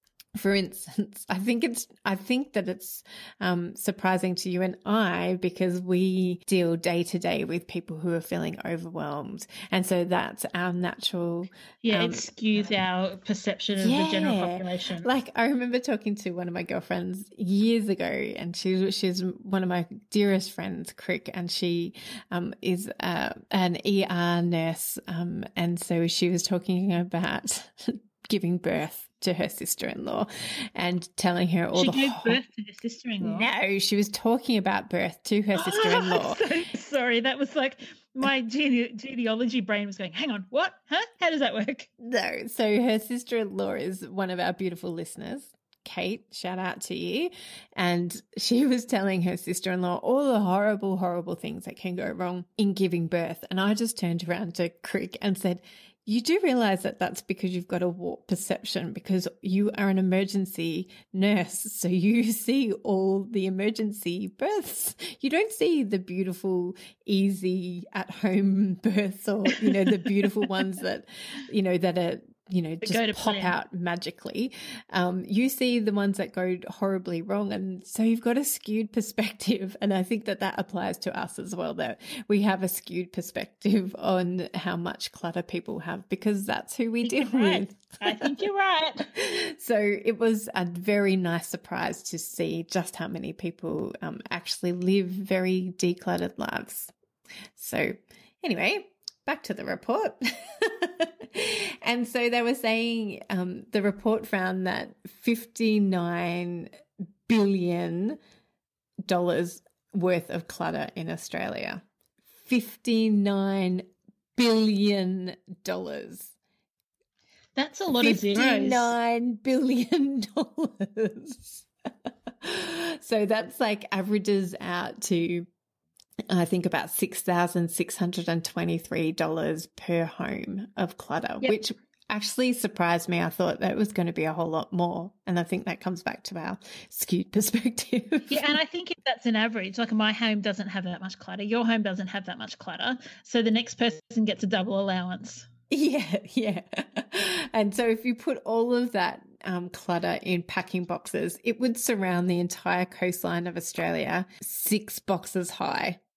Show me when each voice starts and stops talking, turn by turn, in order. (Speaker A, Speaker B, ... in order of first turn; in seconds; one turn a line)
Speaker A: 0.4-12.3
Speaker B: 11.8-15.1
Speaker A: 13.8-32.4
Speaker B: 31.8-33.5
Speaker A: 33.2-36.4
Speaker B: 35.5-41.9
Speaker A: 42.0-88.4
Speaker B: 69.6-70.5
Speaker B: 72.8-73.5
Speaker B: 87.0-89.1
Speaker A: 89.0-96.9
Speaker A: 97.5-106.7
Speaker A: 107.3-108.2
Speaker A: 109.0-111.8
Speaker A: 112.4-116.3
Speaker B: 117.5-118.9
Speaker A: 117.9-121.6
Speaker A: 122.4-125.5
Speaker A: 126.3-138.5
Speaker B: 138.3-145.5
Speaker A: 145.7-156.0